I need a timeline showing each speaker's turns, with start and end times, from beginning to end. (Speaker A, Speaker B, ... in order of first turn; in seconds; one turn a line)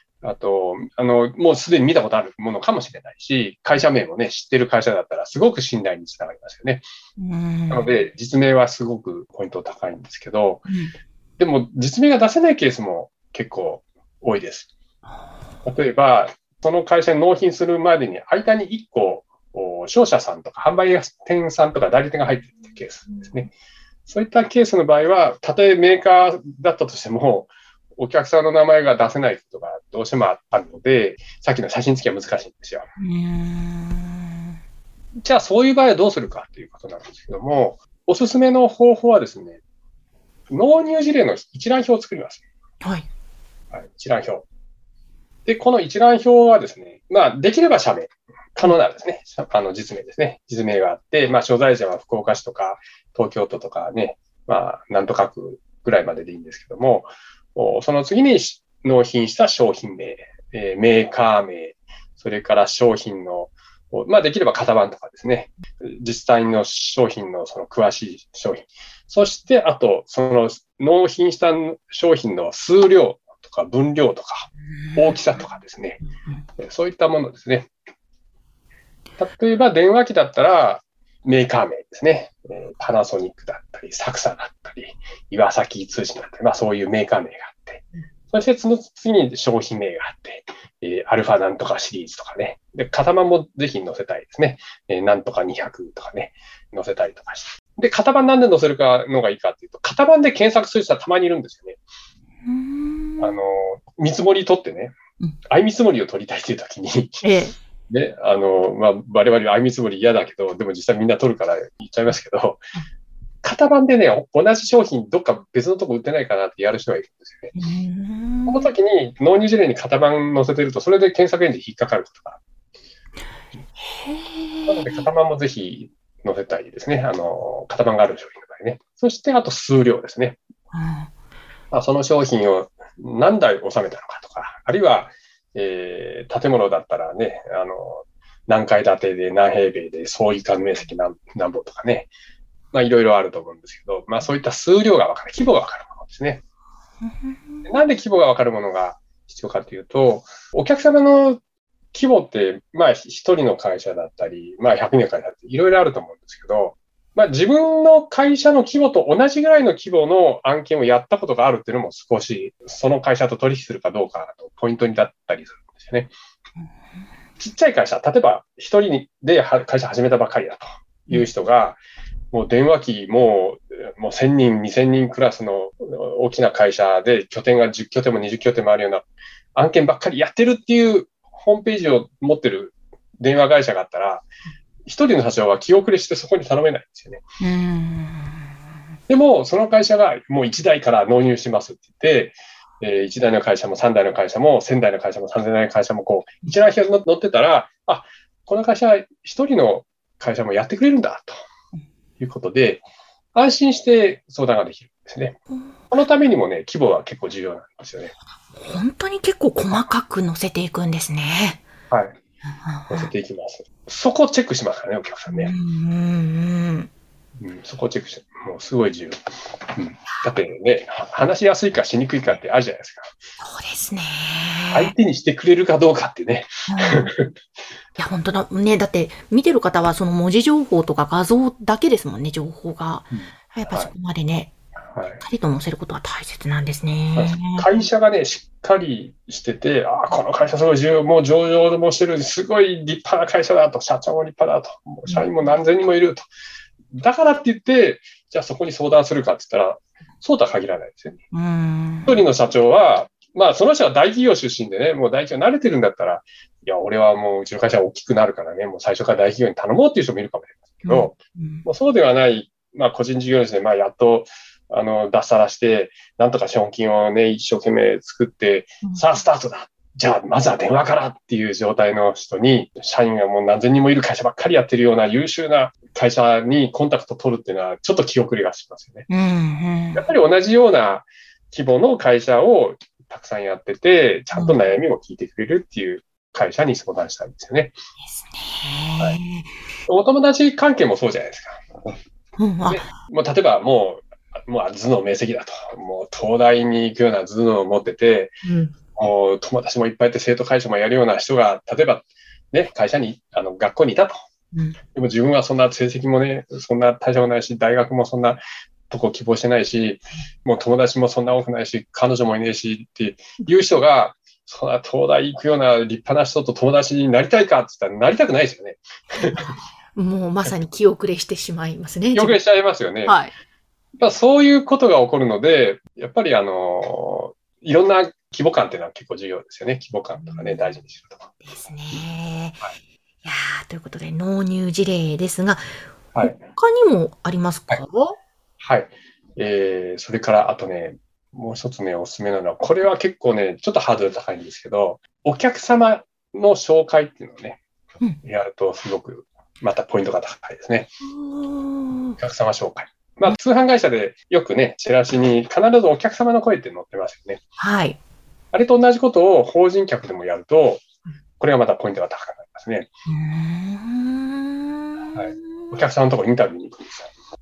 Speaker A: 0.2-6.9
Speaker B: 7.2-7.9
Speaker A: 7.7-10.7
Speaker A: 11.4-14.7
Speaker A: 15.7-23.5
Speaker A: 24.1-32.9
Speaker B: 33.0-34.6
Speaker A: 35.2-39.6
Speaker A: 40.5-42.4
Speaker B: 42.8-43.1
Speaker A: 43.7-44.5
Speaker A: 45.5-76.0
Speaker A: 76.6-77.7
Speaker A: 79.2-101.8
Speaker B: 102.5-103.4
Speaker A: 103.2-105.0
Speaker A: 105.5-107.3
Speaker B: 107.2-107.5
Speaker A: 107.9-112.6
Speaker A: 113.4-117.5
Speaker B: 117.5-118.7
Speaker A: 118.5-122.4
Speaker B: 123.8-125.0
Speaker A: 124.7-130.4
Speaker B: 130.7-131.1
Speaker A: 131.7-142.1
Speaker A: 142.7-146.4
Speaker B: 147.0-147.7
Speaker A: 147.7-151.4
Speaker A: 151.9-166.1
Speaker A: 167.4-171.8
Speaker A: 172.3-184.2
Speaker A: 184.9-187.2
Speaker B: 187.4-188.5
Speaker A: 189.1-201.4
Speaker A: 202.2-202.8
Speaker A: 203.3-205.4
Speaker A: 205.9-208.1
Speaker B: 208.6-211.7
Speaker A: 211.9-212.2
Speaker B: 212.6-213.1
Speaker A: 212.9-215.5
Speaker B: 215.3-216.9
Speaker A: 217.4-223.1
Speaker B: 223.4-224.9
Speaker A: 224.7-227.3
Speaker B: 226.7-227.1
Speaker B: 228.0-234.5
Speaker A: 233.1-233.9
Speaker A: 234.9-235.2
Speaker B: 235.2-237.7
Speaker A: 237.1-246.2
Speaker A: 246.9-251.2
Speaker B: 251.3-252.2
Speaker A: 252.1-279.1
Speaker B: 260.9-261.7
Speaker B: 279.1-280.1
Speaker A: 279.9-287.7
Speaker B: 284.3-284.6
Speaker B: 288.1-289.5
Speaker A: 289.9-292.0
Speaker B: 292.4-292.9
Speaker A: 292.7-298.4
Speaker B: 298.4-298.7
Speaker A: 298.9-304.2
Speaker B: 304.5-304.8
Speaker A: 304.9-319.5
Speaker B: 319.9-322.4
Speaker A: 322.1-323.2
Speaker B: 323.1-323.3
Speaker A: 324.0-331.3
Speaker B: 330.2-330.7
Speaker B: 331.5-332.6
Speaker B: 333.2-335.7
Speaker A: 336.1-336.4
Speaker B: 336.2-338.2
Speaker A: 338.6-347.6
Speaker A: 348.2-350.9
Speaker B: 351.1-352.2
Speaker A: 352.2-357.4
Speaker B: 357.6-358.0
Speaker A: 358.5-360.8
Speaker A: 361.4-362.9
Speaker B: 363.1-365.8
Speaker A: 365.1-367.1